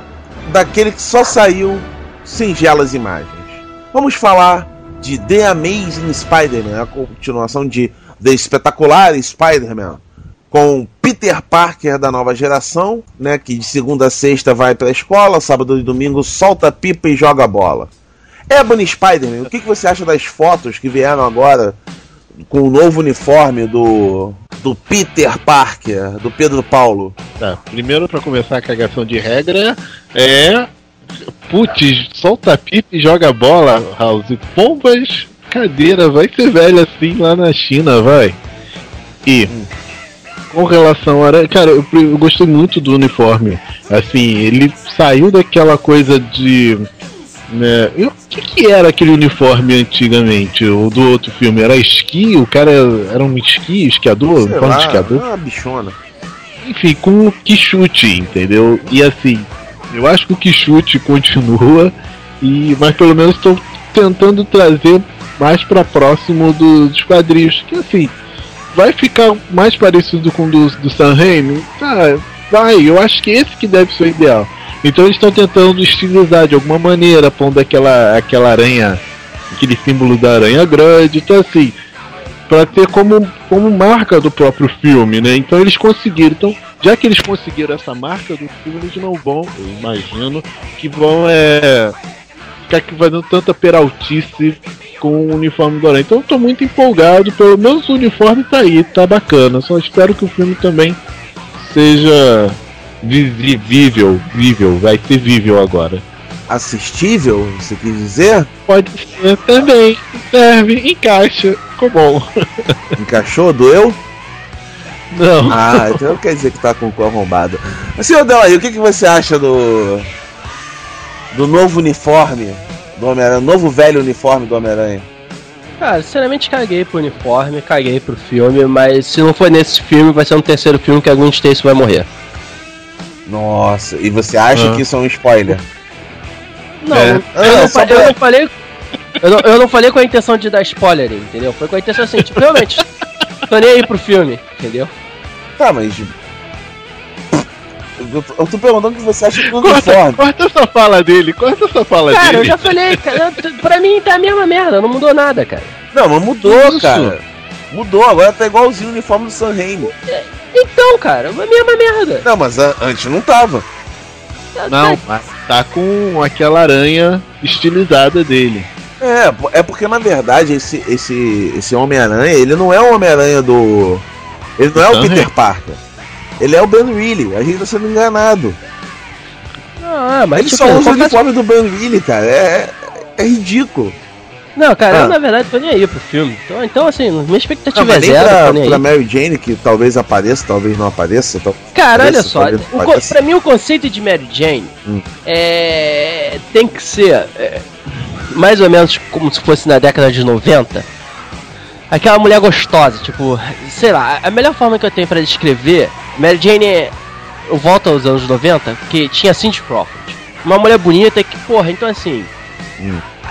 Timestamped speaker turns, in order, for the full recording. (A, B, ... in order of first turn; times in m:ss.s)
0:00.4-0:17.9 A
0:18.5-0:21.8 A
0:22.5-0:27.2 A
0:27.4-0:30.7 B
0:31.5-0:38.4 B
0:39.3-0:39.5 B
0:40.5-0:46.9 B
0:47.5-0:55.2 B
0:54.4-0:56.0 A
0:56.6-1:08.1 B
1:08.7-1:21.8 B
1:22.5-1:32.0 B
1:32.7-1:41.0 B
1:41.6-1:46.0 B
1:46.5-1:48.5 A
1:48.7-1:52.8 B
1:53.0-1:54.0 A
1:55.1-1:56.0 B
1:55.5-2:00.1 A
2:01.3-2:05.1 A
2:05.8-2:12.1 C
2:13.3-2:15.6 A
2:14.5-2:14.8 B
2:16.8-2:18.5 C
2:16.9-2:17.2 B
2:17.4-2:18.2 A
2:19.2-2:22.8 C
2:22.2-2:22.6 B
2:23.5-2:24.9 C
2:25.6-2:26.1 A
2:28.0-2:30.2 A
2:29.4-2:33.2 B
2:32.1-2:35.7 C
2:35.9-2:39.9 A
2:36.4-2:37.2 C
2:39.8-2:42.3 C
2:42.2-2:43.7 A
2:44.6-2:45.0 C
2:44.7-2:48.7 B
2:49.0-2:54.1 A
2:54.6-2:55.8 A
2:54.8-2:55.3 B
2:56.4-2:58.6 A
2:59.8-3:01.2 C
3:00.4-3:04.0 A
3:04.6-3:08.8 C
3:04.9-3:05.2 A
3:07.8-3:13.2 A
3:11.8-3:14.7 C
3:15.2-3:17.7 C
3:18.3-3:20.9 C
3:21.9-3:26.9 C
3:27.5-3:32.3 C
3:32.8-3:33.0 A